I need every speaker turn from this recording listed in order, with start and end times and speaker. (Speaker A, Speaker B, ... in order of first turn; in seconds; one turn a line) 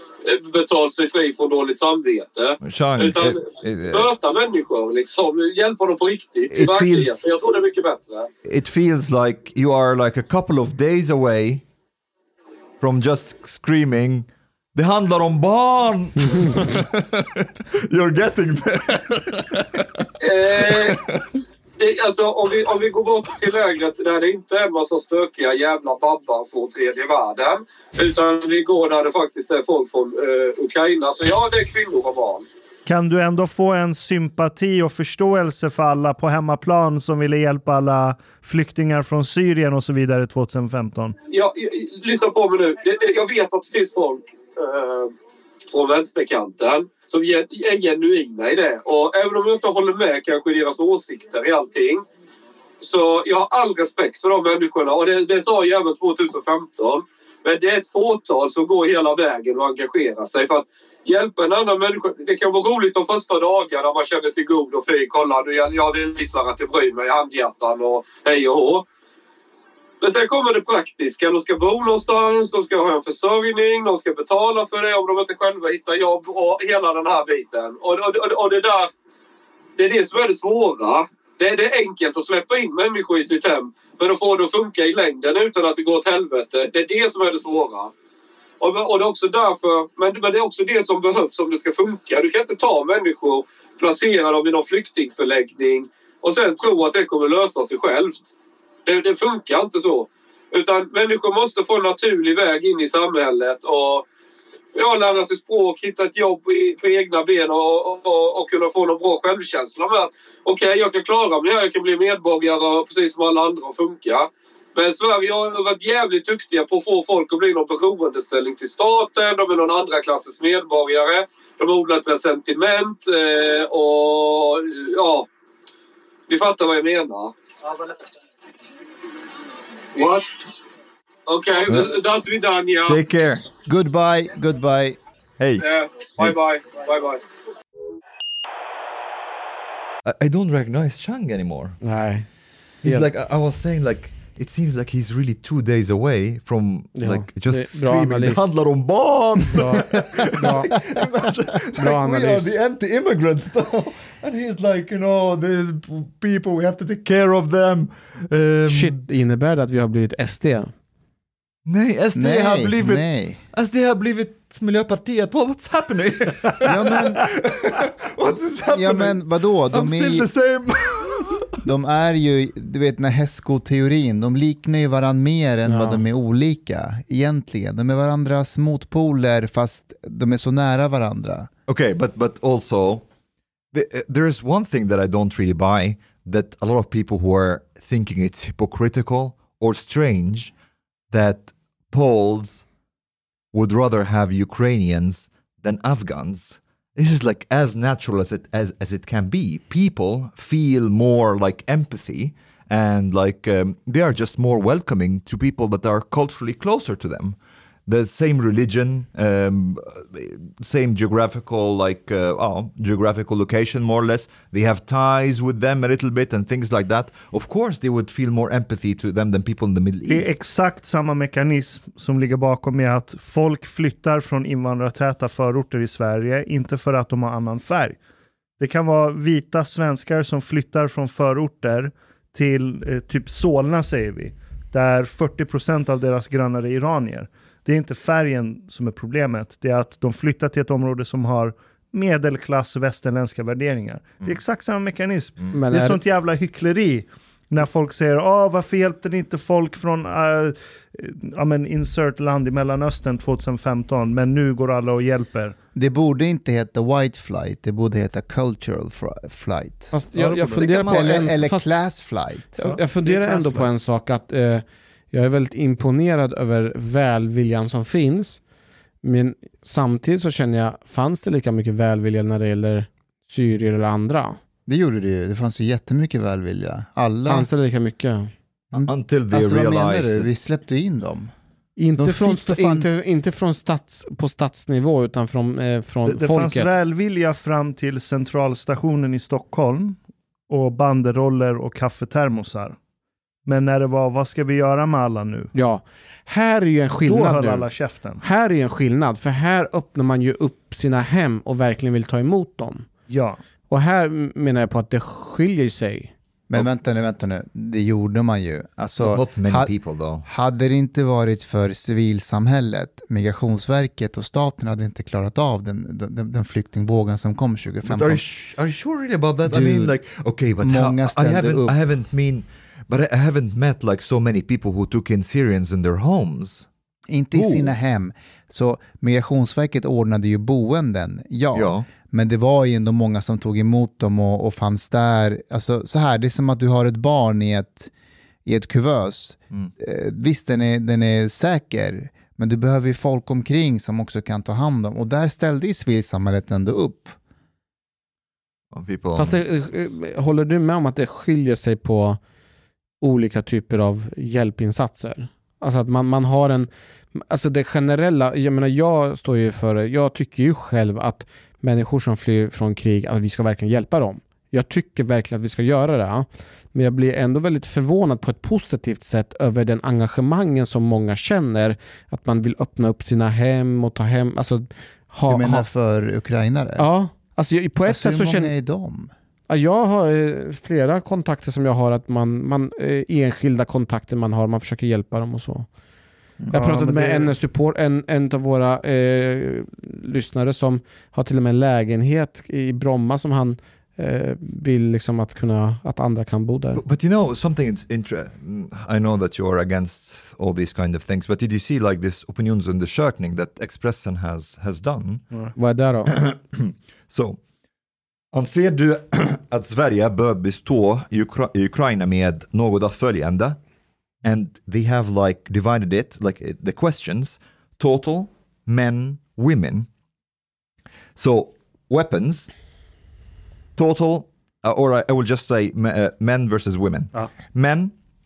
Speaker A: 0.2-8.3
Speaker B: 2.6-4.1
Speaker B: 6.5-7.2
Speaker B: 8.5-11.7
Speaker B: 12.8-21.3
Speaker A: 20.2-21.0
Speaker A: 21.8-32.5
Speaker C: 32.9-41.2
Speaker A: 41.3-45.1
Speaker A: 45.7-52.0
Speaker A: 52.8-68.8
Speaker A: 70.0-78.9
Speaker A: 79.8-87.9
Speaker A: 88.6-98.3
Speaker A: 98.9-104.0
Speaker A: 104.8-125.3
Speaker A: 126.3-127.3
Speaker A: 129.9-130.2
Speaker A: 131.3-133.0
Speaker B: 132.9-133.5
Speaker D: 133.7-135.0
Speaker B: 135.4-135.6
Speaker A: 135.6-137.2
Speaker B: 140.1-141.8
Speaker E: 141.8-142.3
Speaker B: 142.8-158.9
Speaker E: 146.9-148.5
Speaker E: 149.5-150.7
Speaker E: 151.8-152.5
Speaker E: 158.7-160.7
Speaker B: 161.7-169.2
Speaker D: 162.2-163.4
Speaker D: 166.7-167.3
Speaker D: 168.7-170.3
Speaker B: 169.7-171.6
Speaker D: 171.6-181.5
Speaker E: 175.7-176.0
Speaker B: 181.7-183.0
Speaker B: 183.7-190.5
Speaker B: 191.1-192.7
Speaker B: 193.5-207.4
Speaker B: 207.9-220.3
Speaker C: 220.1-228.0
Speaker C: 228.6-255.6
Speaker E: 245.5-246.0
Speaker D: 255.8-259.9
Speaker E: 259.9-261.6
Speaker C: 260.2-260.6
Speaker B: 260.6-261.4
Speaker D: 260.6-262.6
Speaker E: 262.6-268.4
Speaker C: 262.6-263.7
Speaker E: 269.0-274.4
Speaker D: 274.7-277.5
Speaker E: 277.3-278.3
Speaker D: 278.7-281.3
Speaker B: 278.8-280.3
Speaker E: 281.8-286.8
Speaker D: 282.0-282.9
Speaker C: 286.1-292.8
Speaker C: 293.5-295.5
Speaker E: 295.5-297.7
Speaker C: 297.0-298.2
Speaker E: 298.2-302.9
Speaker C: 303.1-303.4
Speaker E: 303.7-306.1
Speaker D: 306.5-318.2
Speaker B: 309.0-310.2
Speaker B: 317.9-326.7
Speaker D: 319.5-320.0
Speaker D: 320.6-321.8
Speaker D: 327.1-337.9
Speaker B: 327.3-327.8
Speaker B: 331.5-331.9
Speaker D: 338.4-347.2
Speaker B: 348.7-349.4
Speaker E: 349.1-352.2
Speaker E: 353.0-375.7
Speaker D: 375.3-376.9
Speaker E: 376.8-378.5
Speaker D: 377.9-379.1
Speaker E: 379.5-385.7
Speaker E: 386.5-396.8
Speaker C: 386.5-387.4
Speaker B: 396.8-405.2
Speaker E: 405.6-406.1
Speaker B: 406.1-407.4
Speaker B: 408.3-413.6
Speaker B: 414.2-419.9
Speaker B: 421.2-422.5
Speaker B: 423.8-427.9